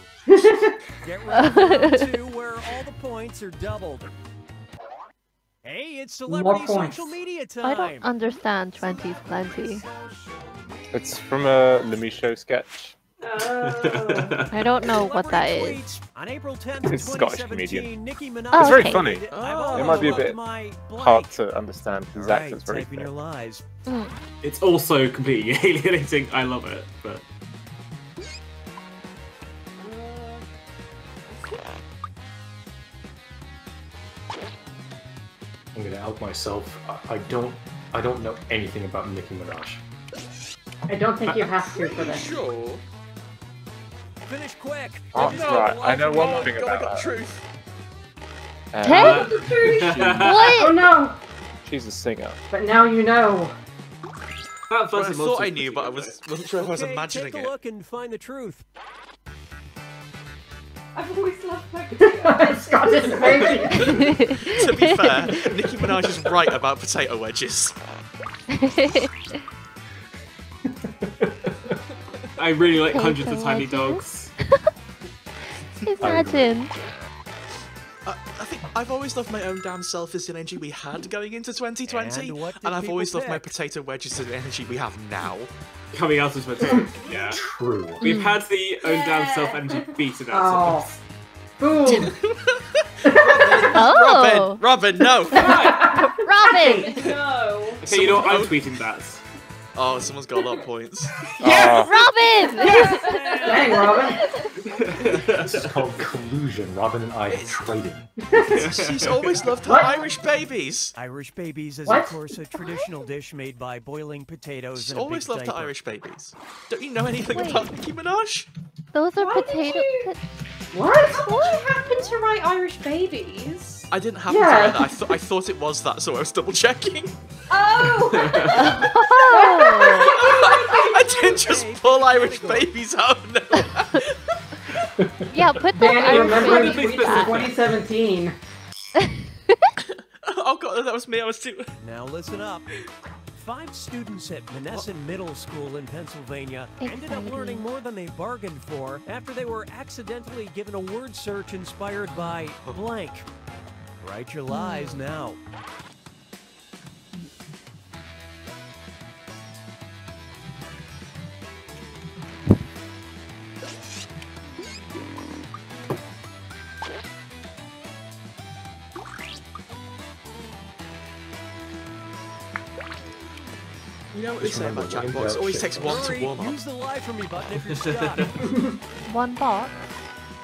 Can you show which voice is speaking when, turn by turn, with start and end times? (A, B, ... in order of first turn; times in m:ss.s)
0:00.3-0:00.8 A
0:01.0-0:04.1 B
0:01.3-0:02.1 C
0:05.6-0:08.1 B
0:06.3-0:07.2 A
0:07.6-0:09.8 C
0:10.9-0:12.9 D
0:13.2-0:14.3 E
0:13.4-0:14.6 F
0:14.5-0:15.8 C
0:14.8-0:21.3 B
0:16.8-0:17.9 D
0:18.5-0:19.2 C
0:18.6-0:20.4 D
0:19.3-0:20.3 G
0:20.9-0:23.1 D
0:22.1-0:23.6 B
0:23.9-0:24.2 C
0:24.4-0:27.2 F
0:35.7-0:39.8 H
0:40.9-0:42.3 A
0:41.3-0:41.5 F
0:41.7-0:42.8 G
0:44.3-0:46.5 B
0:45.1-0:47.1 D
0:45.3-0:47.4 G
0:48.7-0:49.2 D
0:48.8-0:49.3 C
0:48.8-0:50.6 F
0:49.0-0:50.3 E
0:50.0-0:50.9 C
0:50.6-0:51.2 A
0:51.6-0:52.4 D
0:52.5-0:53.5 A
0:54.7-0:56.2 F
0:54.9-0:57.5 G
0:56.6-0:58.6 B
1:00.9-1:03.8 E
1:02.0-1:04.0 A
1:03.2-1:07.8 G
1:03.7-1:05.9 C
1:08.5-1:09.1 C
1:10.8-1:11.7 H
1:12.4-1:14.3 F
1:12.8-1:14.5 C
1:15.8-1:16.7 C
1:16.0-1:16.5 H
1:18.0-1:25.5 G
1:21.9-1:23.5 B
1:25.9-1:27.4 F
1:27.0-1:27.3 E
1:27.2-1:28.1 H
1:28.0-1:28.4 C
1:28.0-1:30.9 F
1:28.8-1:29.9 E
1:30.3-1:31.0 A
1:31.6-1:32.1 A
1:31.8-1:35.5 G
1:33.0-1:33.8 A
1:33.7-1:34.6 C
1:35.4-1:35.8 F
1:35.5-1:36.8 A
1:35.5-1:37.0 C
1:35.6-1:37.8 E
1:37.8-1:38.6 G
1:37.8-1:39.2 F
1:39.7-1:41.1 G
1:41.4-1:41.9 D
1:41.4-1:41.8 F
1:41.4-1:43.2 C
1:42.5-1:44.6 E
1:42.7-1:43.7 F
1:43.4-1:44.2 A
1:44.6-1:45.8 F
1:45.3-1:48.1 H
1:47.3-1:47.8 G
1:48.2-1:48.9 A
1:48.4-1:49.4 F
1:48.4-1:50.9 G
1:49.6-1:50.0 A
1:51.0-1:55.7 B
1:51.8-1:52.1 A
1:54.7-1:58.5 G
1:57.3-1:57.7 C
1:58.9-2:00.2 C
1:59.2-2:00.1 E
2:00.7-2:01.3 A
2:01.0-2:03.9 E
2:03.9-2:07.1 G
2:04.3-2:04.9 A
2:07.5-2:11.2 E
2:08.1-2:08.6 F
2:08.5-2:10.1 C
2:10.0-2:14.4 G
2:11.0-2:12.7 B
2:15.3-2:17.5 C
2:15.7-2:18.4 A
2:16.0-2:17.7 F
2:19.8-2:21.7 G
2:21.8-2:22.7 B
2:23.4-2:33.3 B
2:24.7-2:24.9 G
2:26.8-2:27.6 C
2:32.4-2:32.8 G
2:34.0-2:35.4 B
2:34.5-2:35.0 C
2:54.1-2:56.6 G
2:54.4-2:56.1 H
2:55.8-2:58.4 B
2:57.9-2:58.4 F
2:59.1-2:59.7 C